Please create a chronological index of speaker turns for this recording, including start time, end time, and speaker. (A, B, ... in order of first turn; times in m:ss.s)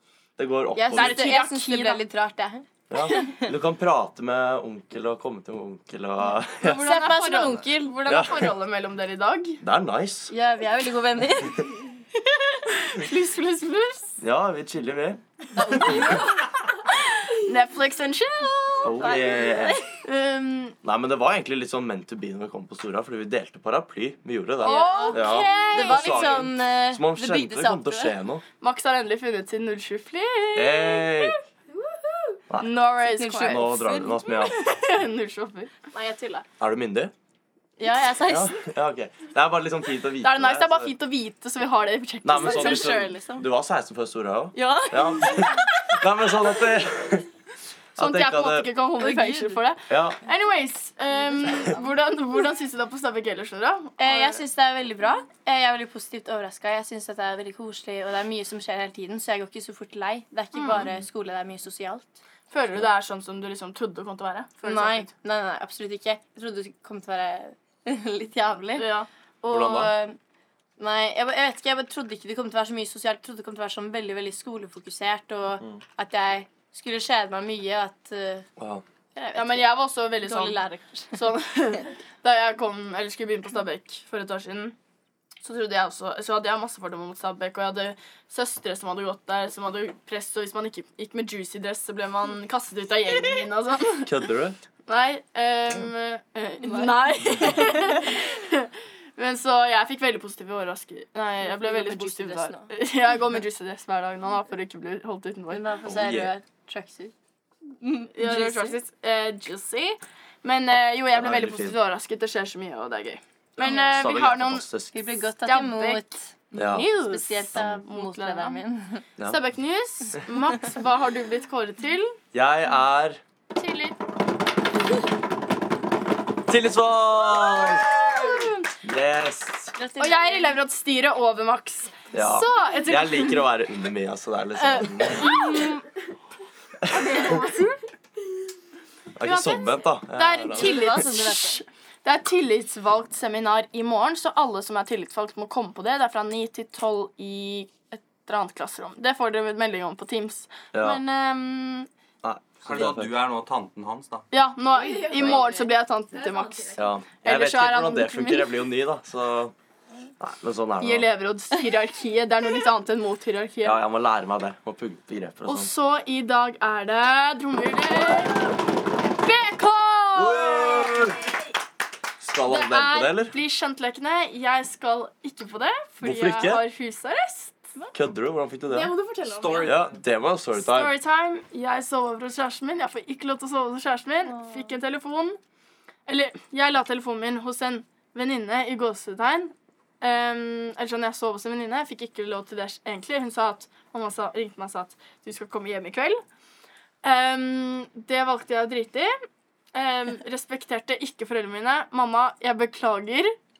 0:00.4-0:01.2 A
0:00.7-0:03.5 B
0:00.9-0:02.0 C
0:02.9-0:06.8 A
0:06.6-0:09.6 C
0:06.6-0:08.0 B
0:08.0-0:08.5 A
0:09.6-0:10.3 A
0:10.3-0:11.8 B
0:12.6-0:14.2 C
0:14.2-0:15.2 A
0:15.5-0:16.6 B
0:15.8-0:16.2 A
0:17.4-0:19.2 C
0:18.8-0:19.8 A
0:18.9-0:19.9 B
0:20.0-0:20.8 C
0:20.8-0:28.4 A
0:24.6-0:26.4 C
0:24.6-0:28.2 B
0:28.6-0:31.3 C
0:30.5-0:31.4 A
0:32.6-0:33.8 C
0:33.1-0:34.2 B
0:33.4-0:34.6 A
0:34.3-0:35.7 C
0:35.9-0:36.4 B
0:36.6-0:37.1 A
0:37.8-0:38.6 B
0:38.2-0:40.9 A
0:40.2-0:43.0 C
0:42.2-0:47.3 A
0:42.4-0:43.5 B
0:44.5-0:45.4 B
0:48.0-0:48.7 A
0:48.0-0:54.4 C
0:49.0-0:49.6 B
0:49.9-0:50.2 A
0:54.0-1:02.2 B
1:00.5-1:00.9 C
1:02.5-1:05.1 C
1:04.6-1:08.9 B
1:08.8-1:09.1 C
1:09.4-1:10.2 B
1:09.5-1:09.9 A
1:10.8-1:18.4 B
1:18.6-1:18.8 A
1:19.1-1:21.2 B
1:19.3-1:24.8 C
1:25.4-1:34.1 C
1:34.0-1:34.6 A
1:34.8-1:45.6 C
1:36.6-1:37.5 B
1:41.4-1:42.7 B
1:45.5-1:47.1 B
1:45.8-1:46.3 A
1:47.8-1:48.7 B
1:48.1-1:54.7 C
1:51.1-1:51.8 A
1:53.6-1:55.0 A
1:53.6-1:54.1 B
1:54.9-1:56.3 B
1:55.4-1:58.6 C
1:56.5-1:56.9 A
1:56.9-1:59.0 B
1:59.2-2:02.2 C
2:02.3-2:03.2 A
2:03.5-2:04.0 C
2:06.5-2:07.9 A
2:07.6-2:08.5 C
2:08.8-2:09.7 A
2:09.8-2:10.6 B
2:10.0-2:13.5 C
2:12.1-2:15.4 A
2:14.8-2:15.5 B
2:14.8-2:15.7 C
2:16.8-2:17.7 D
2:19.2-2:21.1 A
2:19.2-2:31.9 C
2:20.5-2:21.6 B
2:30.7-2:31.0 A
2:32.2-2:33.2 A
2:32.6-2:34.2 E
2:34.3-2:38.7 C
2:34.7-2:36.8 B
2:36.8-2:39.5 A
2:40.2-2:41.1 A
2:40.8-2:43.8 C
2:43.6-2:45.7 A
2:45.5-2:48.5 C
2:49.1-2:50.7 C
2:50.1-2:51.3 A
2:52.2-2:53.3 A
2:52.4-2:57.6 C
2:56.0-2:56.6 A
2:57.9-2:58.9 A
2:58.7-2:59.8 D
2:59.3-2:59.8 E
2:59.6-3:01.0 A
3:00.5-3:05.4 C
3:04.2-3:04.7 B
3:06.1-3:16.2 C
3:17.0-3:19.1 C
3:19.7-3:23.3 C